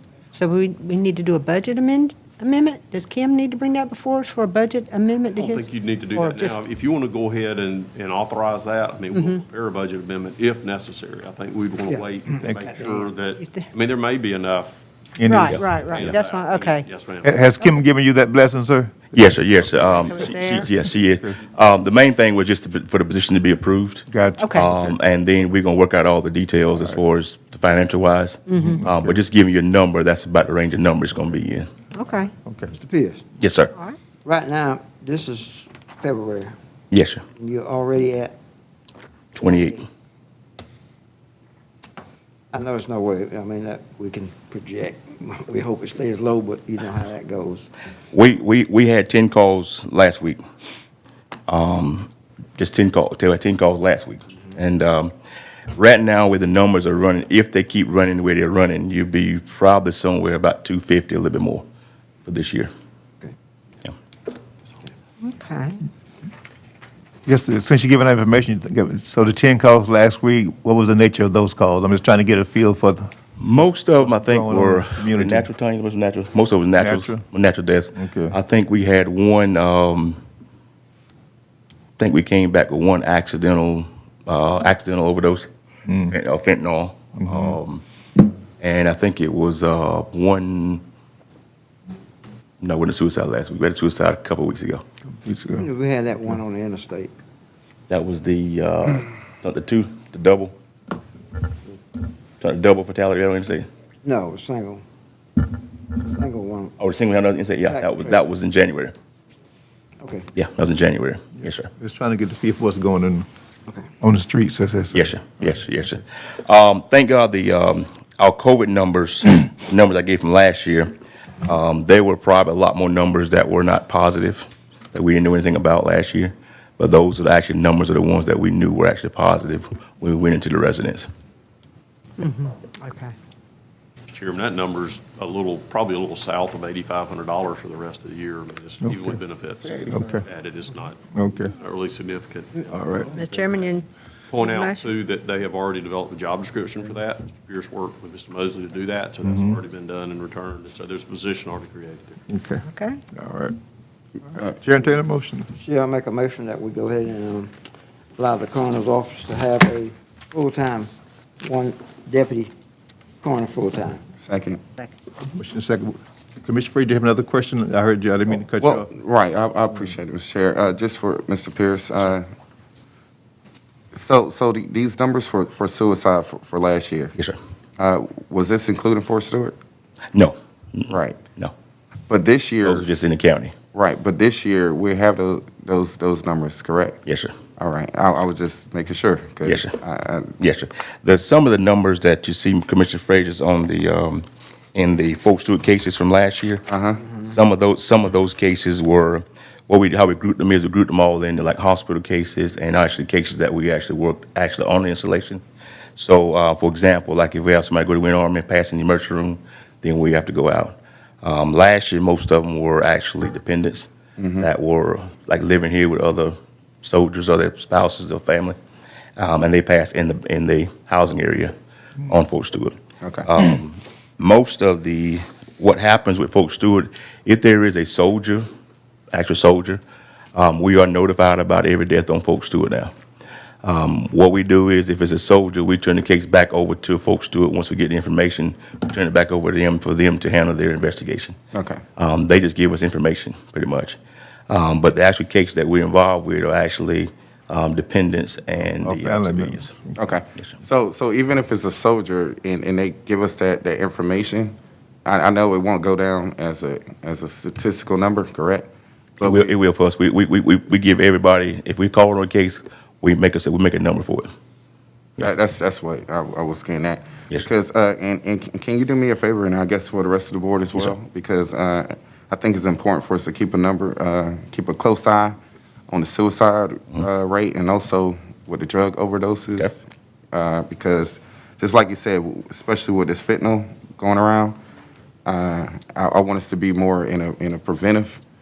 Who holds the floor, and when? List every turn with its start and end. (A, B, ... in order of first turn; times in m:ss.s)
0:00.3-0:06.6 A
0:05.3-0:17.4 B
0:09.1-0:09.4 A
0:12.4-0:12.7 C
0:12.8-0:13.0 D
0:13.4-0:13.7 A
0:15.2-0:15.6 C
0:15.3-0:16.9 A
0:17.2-0:19.2 C
0:19.1-0:31.7 E
0:19.8-0:20.7 A
0:24.1-0:25.0 C
0:24.4-0:24.7 A
0:28.5-0:28.8 A
0:28.6-0:29.2 C
0:31.9-0:32.3 A
0:32.4-0:32.7 C
0:32.7-0:33.2 D
0:33.4-0:33.7 E
0:34.2-0:36.5 D
0:36.9-0:37.2 E
0:37.4-0:38.3 D
0:39.3-0:39.8 E
0:42.5-0:47.7 D
0:48.1-0:50.4 E
0:51.5-0:55.1 E
0:55.7-1:01.6 E
1:02.2-1:02.7 E
1:05.2-1:05.8 A
1:07.2-1:13.1 C
1:13.4-1:20.2 E
1:13.9-1:15.5 C
1:16.8-1:17.2 C
1:17.9-1:18.4 C
1:22.0-1:25.5 E
1:25.8-1:26.1 C
1:26.1-1:27.8 E
1:27.2-1:27.6 C
1:28.6-1:30.8 E
1:32.6-1:34.8 E
1:35.2-1:35.7 C
1:35.6-1:37.1 D
1:37.9-1:40.5 E
1:42.4-1:43.7 E
1:44.0-1:44.8 D
1:46.0-1:46.7 D
1:46.8-1:48.9 E
1:50.0-1:50.3 D
1:50.3-1:51.7 E
1:51.7-1:53.3 C
1:54.0-1:55.6 C
1:54.9-2:11.1 E
2:12.2-2:13.1 A
2:14.1-2:23.6 B
2:18.8-2:19.1 C
2:19.9-2:20.2 C
2:21.1-2:21.5 C
2:22.8-2:23.0 C
2:23.1-2:23.8 A
2:24.3-2:32.2 B
2:24.4-2:24.9 A
2:29.2-2:29.6 C
2:32.3-2:33.6 C
2:32.7-2:33.0 A
2:34.3-2:35.5 C
2:35.6-2:37.5 D
2:38.2-2:40.9 D
2:41.4-2:42.5 D
2:43.2-2:44.0 D
2:44.2-2:44.6 F
2:45.3-2:48.9 C
2:48.6-2:52.3 F
2:53.9-2:57.1 F
2:57.8-2:59.6 F
3:00.1-3:01.5 E
3:00.9-3:01.2 F
3:02.1-3:02.8 F
3:02.6-3:03.5 E
3:03.7-3:07.0 F
3:07.0-3:07.3 E
3:07.6-3:10.4 F
3:09.4-3:09.8 E
3:10.4-3:25.4 E
3:16.7-3:17.0 F
3:26.0-3:33.9 E
3:34.2-3:34.5 F
3:34.4-3:38.6 E
3:39.2-3:41.5 E
3:42.0-3:48.5 E
3:43.0-3:43.2 F
3:49.1-3:49.8 E
3:50.3-3:52.9 E
3:53.6-4:01.4 E
4:01.5-4:01.8 F
4:02.0-4:04.0 E
4:04.5-4:09.7 E
4:08.8-4:10.0 C
4:10.0-4:18.7 F
4:19.2-4:24.3 E
4:25.2-4:35.4 F
4:35.9-4:44.6 F
4:45.2-4:48.2 F